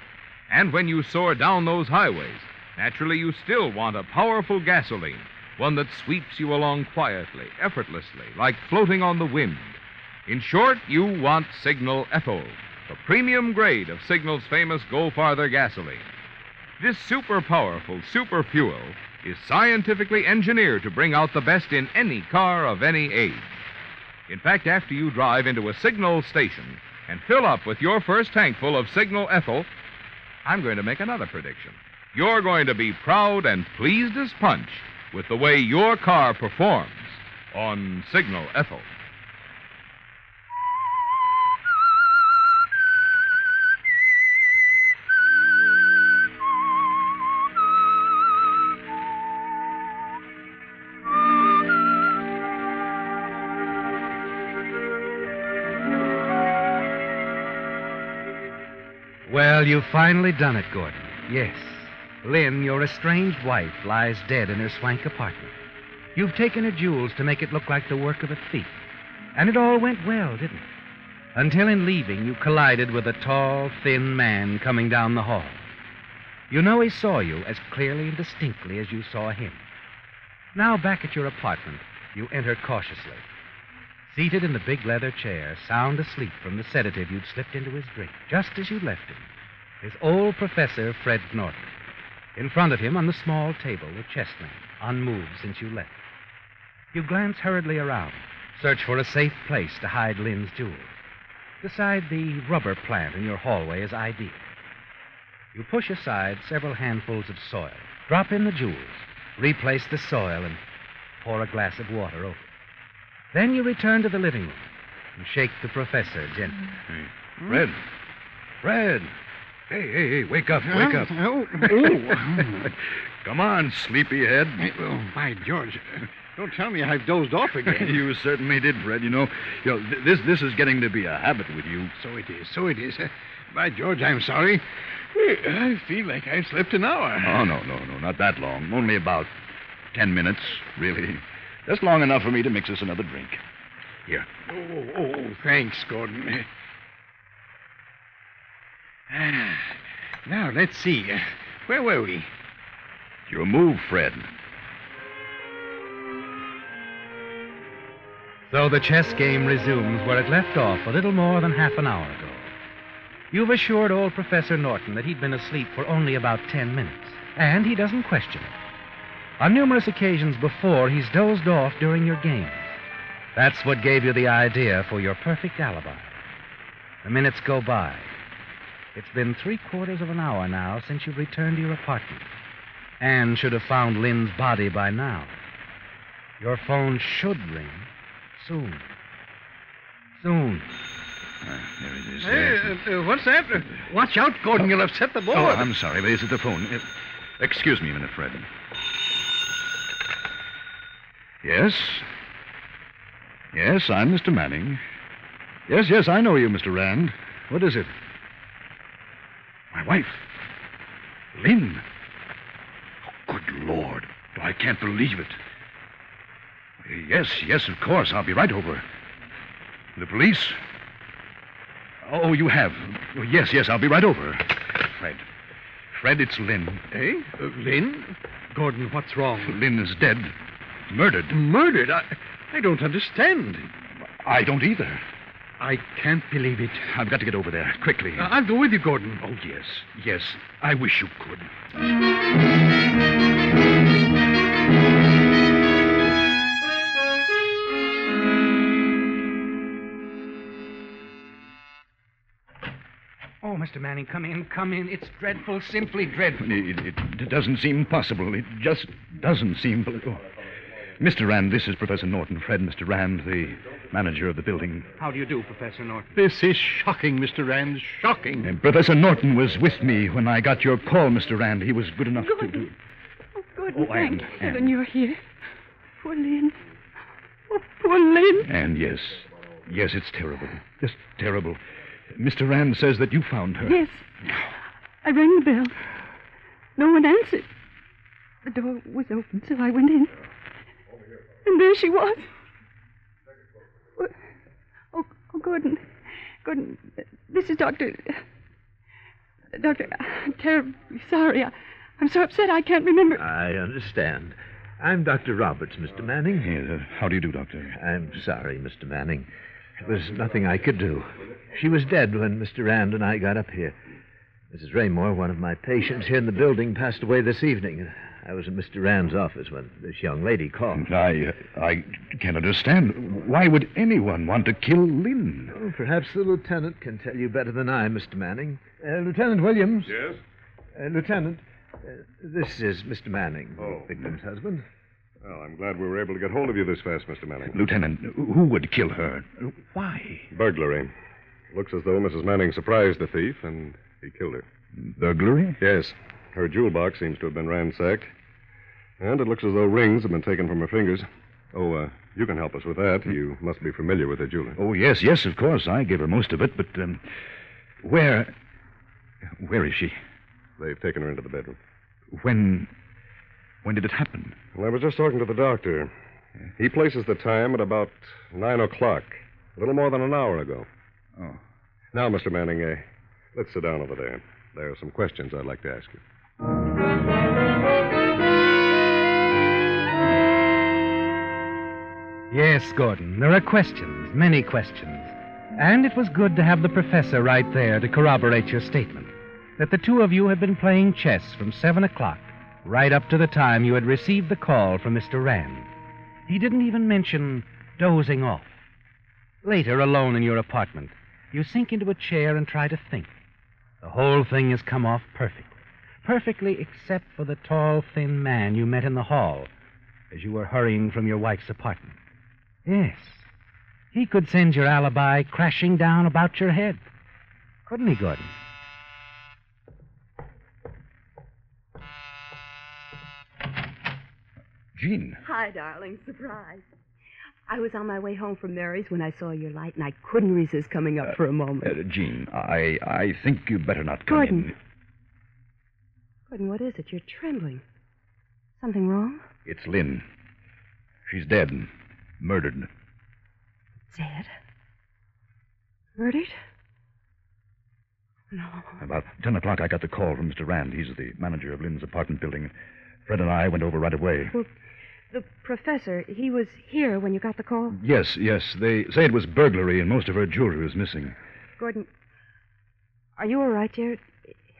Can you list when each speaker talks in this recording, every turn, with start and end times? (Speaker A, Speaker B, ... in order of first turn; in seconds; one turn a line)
Speaker A: 0.5-16.1
Speaker A: 16.8-23.6
Speaker A: 24.3-29.7
Speaker A: 30.4-38.9
Speaker B: 59.3-65.5
Speaker B: 66.2-68.8
Speaker B: 69.3-70.7
Speaker B: 71.3-75.7
Speaker B: 76.5-79.6
Speaker B: 80.5-83.3
Speaker B: 84.1-89.3
Speaker B: 89.8-91.7
Speaker B: 92.4-96.0
Speaker B: 96.9-100.9
Speaker B: 101.6-104.4
Speaker B: 105.5-110.6
Speaker B: 111.2-112.4
Speaker B: 113.3-116.7
Speaker C: 116.9-117.8
Speaker C: 118.6-119.1
Speaker C: 119.7-124.7
Speaker D: 120.7-122.7
Speaker D: 124.6-128.0
Speaker C: 127.7-131.9
Speaker D: 132.0-137.5
Speaker C: 137.2-139.3
Speaker C: 139.9-143.4
Speaker D: 144.5-146.5
Speaker D: 149.1-152.3
Speaker C: 153.3-154.3
Speaker B: 158.5-162.5
Speaker B: 163.3-168.6
Speaker B: 169.4-172.7
Speaker B: 173.4-176.1
Speaker B: 177.0-178.1
Speaker B: 178.9-182.3
Speaker B: 183.0-185.4
Speaker B: 186.4-188.9
Speaker B: 190.2-190.7
Speaker C: 191.4-192.8
Speaker D: 192.2-195.7
Speaker C: 195.3-196.9
Speaker C: 197.4-198.5
Speaker C: 201.4-202.1
Speaker C: 203.5-204.8
Speaker C: 205.7-207.9
Speaker C: 209.7-210.3
Speaker C: 211.3-211.8
Speaker C: 213.0-215.4
Speaker C: 216.8-218.8
Speaker C: 219.9-220.6
Speaker C: 222.0-225.3
Speaker C: 225.9-226.9
Speaker D: 226.9-229.6
Speaker C: 229.4-230.3
Speaker C: 230.9-231.4
Speaker D: 231.3-233.7
Speaker C: 234.0-235.0
Speaker D: 235.6-236.9
Speaker C: 236.8-238.3
Speaker D: 238.2-239.4
Speaker C: 239.4-241.5
Speaker B: 253.4-256.4
Speaker C: 256.4-260.3
Speaker C: 261.0-264.9
Speaker B: 265.0-266.1
Speaker D: 266.1-268.5
Speaker C: 268.4-272.8
Speaker E: 272.2-272.7
Speaker E: 273.4-275.2
Speaker C: 273.7-274.8
Speaker E: 276.0-276.6
Speaker E: 277.5-278.5
Speaker C: 278.4-281.6
Speaker C: 282.1-283.8
Speaker E: 283.6-284.1
Speaker E: 285.0-285.8
Speaker E: 286.8-287.5
Speaker E: 288.4-290.2
Speaker E: 291.4-292.3
Speaker E: 294.9-295.9
Speaker E: 296.4-298.2
Speaker E: 299.5-303.2
Speaker F: 303.1-306.5
Speaker C: 306.4-307.8
Speaker F: 307.7-313.8
Speaker F: 314.5-320.9
Speaker C: 320.7-325.6
Speaker F: 325.5-330.0
Speaker G: 329.9-330.2
Speaker F: 330.8-334.6
Speaker G: 333.6-333.9
Speaker G: 335.2-337.6
Speaker C: 337.5-340.3
Speaker G: 340.3-340.9
Speaker G: 341.5-344.4
Speaker C: 344.8-345.6
Speaker G: 345.6-348.1
Speaker G: 349.0-354.6
Speaker C: 354.6-357.1
Speaker C: 357.8-358.3
Speaker C: 359.3-360.0
Speaker G: 360.6-361.6
Speaker C: 362.1-362.7
Speaker C: 363.6-364.4
Speaker G: 364.6-365.9
Speaker G: 366.6-370.7
Speaker G: 371.9-372.8
Speaker G: 373.4-376.0
Speaker B: 382.3-395.7
Speaker B: 396.3-398.5
Speaker B: 399.4-403.1
Speaker B: 403.8-409.5
Speaker B: 410.1-412.0
Speaker B: 412.7-413.3
Speaker B: 413.9-416.8
Speaker B: 417.7-418.3
Speaker C: 424.8-425.2
Speaker H: 425.2-426.6
Speaker H: 427.5-431.7
Speaker C: 431.1-434.6
Speaker H: 434.1-434.5
Speaker H: 436.3-437.6
Speaker H: 438.6-439.2
Speaker C: 439.5-440.1
Speaker C: 441.1-442.7
Speaker H: 443.9-444.3
Speaker H: 446.0-446.4
Speaker H: 448.3-448.8
Speaker C: 448.8-452.5
Speaker C: 453.1-454.4
Speaker H: 455.1-457.8
Speaker C: 457.7-461.2
Speaker H: 461.6-461.9
Speaker H: 463.2-464.4